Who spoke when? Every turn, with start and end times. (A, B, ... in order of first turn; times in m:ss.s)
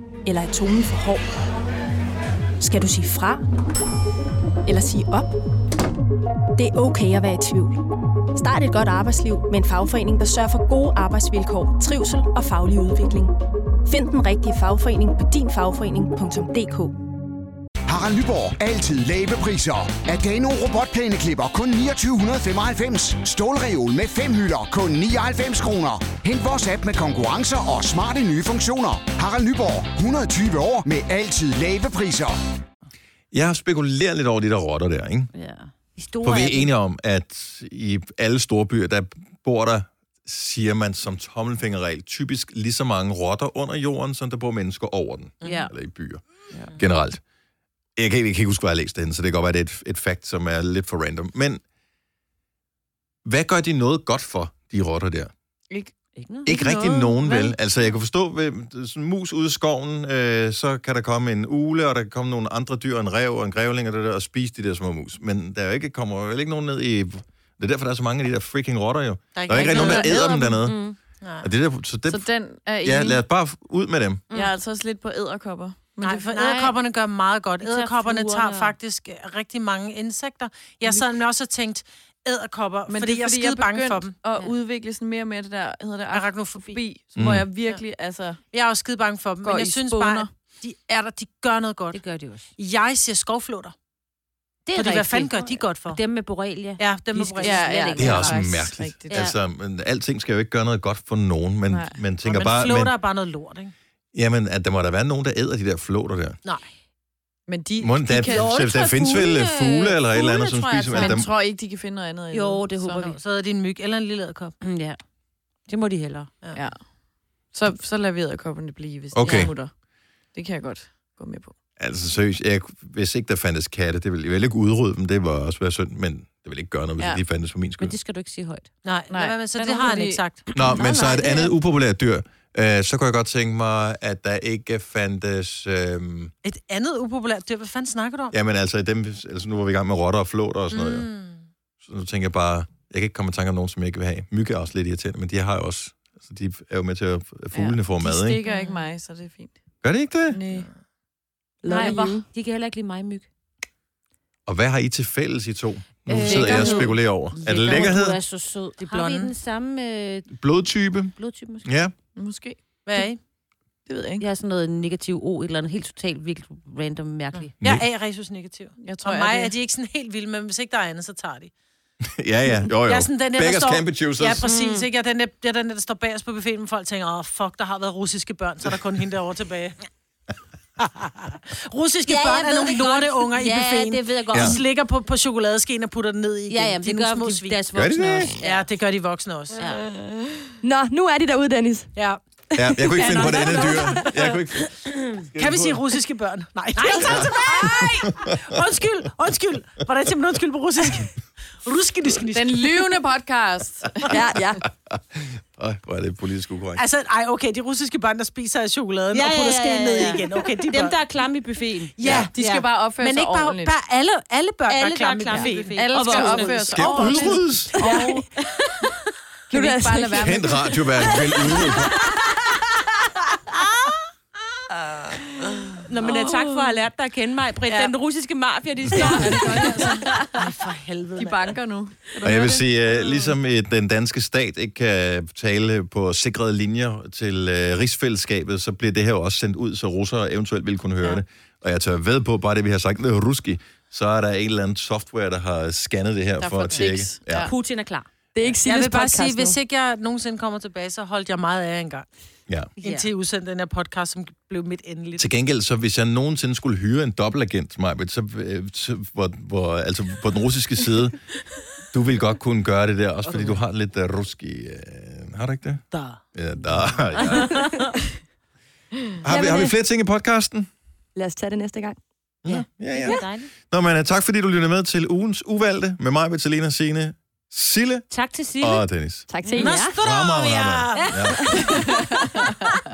0:00.2-0:01.3 A
0:02.6-0:03.4 A
0:04.6-0:05.3 A
0:06.6-0:07.8 A
0:08.3-0:13.3 A
0:13.8-0:16.9 A
0:17.9-0:32.4 B
0:33.3-0:35.3 C
0:35.3-0:36.7 D
0:36.2-0:46.2 C
0:45.4-0:45.7 E
0:45.4-0:45.7 D
0:46.8-0:47.2 C
0:48.0-0:51.6 C
0:53.2-0:55.3 C
0:56.2-0:56.5 D
0:56.4-1:10.8 C
0:56.5-0:57.6 F
1:09.3-1:10.3 E
1:09.5-1:10.6 F
1:09.7-1:11.0 D
1:11.2-1:11.5 E
1:11.4-1:12.3 C
1:12.1-1:13.2 F
1:12.8-1:14.2 C
1:14.3-1:16.7 F
1:16.0-1:24.1 E
1:17.6-1:18.7 D
1:22.9-1:28.4 F
1:26.1-1:26.8 E
1:27.2-1:27.4 C
1:28.5-1:32.0 E
1:29.4-1:30.3 F
1:31.9-1:32.5 D
1:32.6-1:33.7 E
1:34.7-1:38.5 D
1:34.7-1:36.0 E
1:36.8-1:37.9 E
1:37.4-1:39.2 F
1:38.0-1:42.9 C
1:39.1-1:39.3 D
1:41.7-1:42.0 F
1:42.2-1:43.7 E
1:44.1-1:46.4 C
1:47.5-1:48.5 F
1:47.8-1:51.3 C
1:48.2-1:51.2 D
1:50.3-1:53.1 F
1:52.3-1:53.2 D
1:53.1-1:54.6 E
1:54.6-1:55.0 D
1:55.7-1:56.3 D
1:57.5-1:59.7 F
1:59.1-1:59.5 C
1:59.2-1:59.5 D
2:00.3-2:01.5 F
2:01.8-2:08.0 C
2:07.8-2:08.7 D
2:08.8-2:10.5 E
2:09.1-2:10.2 F
2:09.6-2:09.9 D
2:10.4-2:11.5 D
2:10.5-2:16.3 C
2:16.4-2:18.3 E
2:18.3-2:21.1 C
2:20.7-2:21.4 E
2:21.8-2:28.4 C
2:27.5-2:29.6 F
2:28.5-2:28.8 D
2:29.8-2:30.4 C
2:30.3-2:30.7 F
2:31.6-2:32.2 G
2:31.6-2:33.3 D
2:31.8-2:32.2 F
2:34.4-2:38.2 C
2:36.1-2:40.3 D
2:36.3-2:36.9 F
2:37.5-2:38.0 E
2:38.8-2:39.3 E
2:40.3-2:41.9 C
2:41.2-2:41.7 D
2:42.2-2:43.0 F
2:42.8-2:43.2 E
2:43.9-2:44.2 F
2:44.2-2:47.5 D
2:47.3-2:51.5 E
2:48.8-2:49.5 F
2:52.0-2:54.5 C
2:52.8-2:59.8 E
2:54.4-2:54.8 D
3:00.8-3:07.6 E
3:02.0-3:04.6 D
3:04.3-3:04.6 C
3:06.5-3:08.7 D
3:07.7-3:08.3 C
3:08.4-3:09.9 E
3:09.6-3:09.8 D
3:10.6-3:11.9 G
3:12.0-3:12.2 E
3:12.5-3:13.8 G
3:12.5-3:15.8 C
3:13.0-3:14.2 D
3:14.9-3:15.2 D
3:15.4-3:22.8 E
3:16.8-3:17.5 D
3:17.0-3:18.4 C
3:22.3-3:24.1 F
3:24.1-3:24.6 G
3:24.9-3:26.8 C
3:26.8-3:31.0 E
3:29.1-3:31.9 D
3:32.0-3:37.0 E
3:32.0-3:32.3 C
3:32.1-3:33.7 F
3:34.7-3:37.3 D
3:35.3-3:38.2 F
3:36.7-3:37.8 C
3:37.8-3:38.2 E
3:37.8-3:38.9 D
3:39.5-3:40.6 F
3:39.5-3:41.7 D
3:40.2-3:42.1 C
3:45.6-3:46.3 E
3:45.8-3:50.4 D
3:47.7-3:47.9 E
3:48.9-3:51.6 E
3:49.5-3:50.2 F
3:51.2-3:52.6 F
3:52.2-4:07.5 C
4:06.4-4:07.5 F
4:07.3-4:08.1 D
4:08.3-4:09.6 G
4:08.6-4:12.1 E
4:12.8-4:15.3 E
4:12.8-4:13.1 D
4:15.2-4:21.3 C
4:21.9-4:27.8 C
4:25.9-4:26.2 E
4:27.2-4:27.8 D
4:29.2-4:30.7 C
4:29.2-4:29.7 G
4:31.2-4:32.0 G
4:32.4-4:38.0 C
4:32.9-4:33.5 D
4:38.1-4:38.8 D
4:38.6-4:39.3 C
4:39.3-4:40.0 G
4:39.4-4:39.7 F
4:39.5-4:42.5 E
4:40.0-4:41.7 C
4:41.0-4:42.0 D